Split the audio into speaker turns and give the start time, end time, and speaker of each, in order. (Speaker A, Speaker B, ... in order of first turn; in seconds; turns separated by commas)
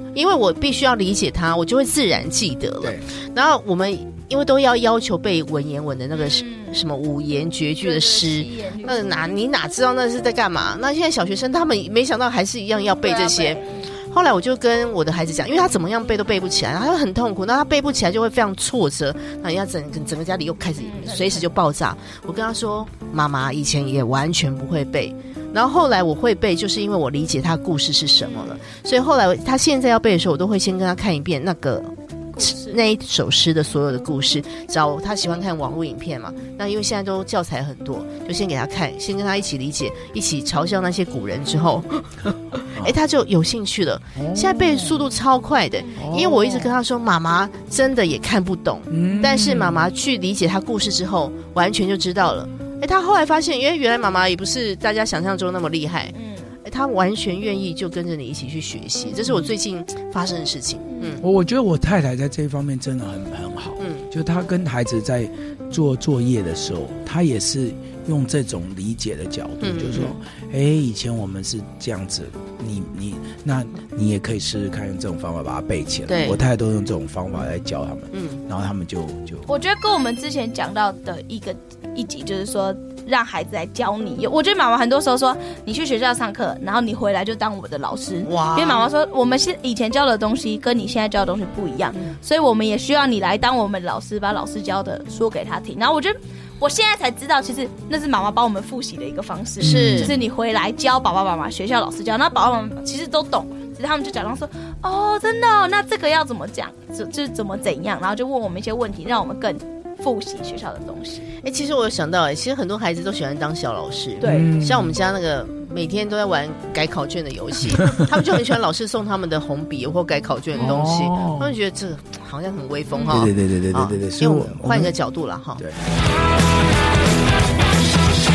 Speaker A: 0.1-61.2, Speaker B: 6.1-6.8, Speaker B: 7.8-9.2, Speaker B: 13.0-13.8, Speaker B: 20.8-21.5, Speaker B: 28.2-28.6, Speaker B: 32.3-32.8, Speaker C: 44.1-45.0, Speaker B: 45.8-46.2, Speaker C: 46.0-46.6, Speaker C: 48.9-49.9, Speaker B: 56.1-56.5, Speaker B: 60.9-61.2, Speaker C: 61.2-79.5, Speaker A: 63.8-64.0, Speaker A: 69.6-70.2, Speaker A: 76.1-76.4, Speaker A: 78.1-78.4, Speaker B: 79.5-111.3, Speaker A: 88.2-88.9, Speaker C: 99.6-100.2, Speaker A: 99.6-100.1, Speaker A: 111.4-125.6, Speaker B: 114.2-114.5, Speaker C: 114.3-115.0, Speaker C: 120.6-121.5, Speaker B: 122.9-123.3, Speaker C: 123.1-124.9, Speaker C: 125.6-125.8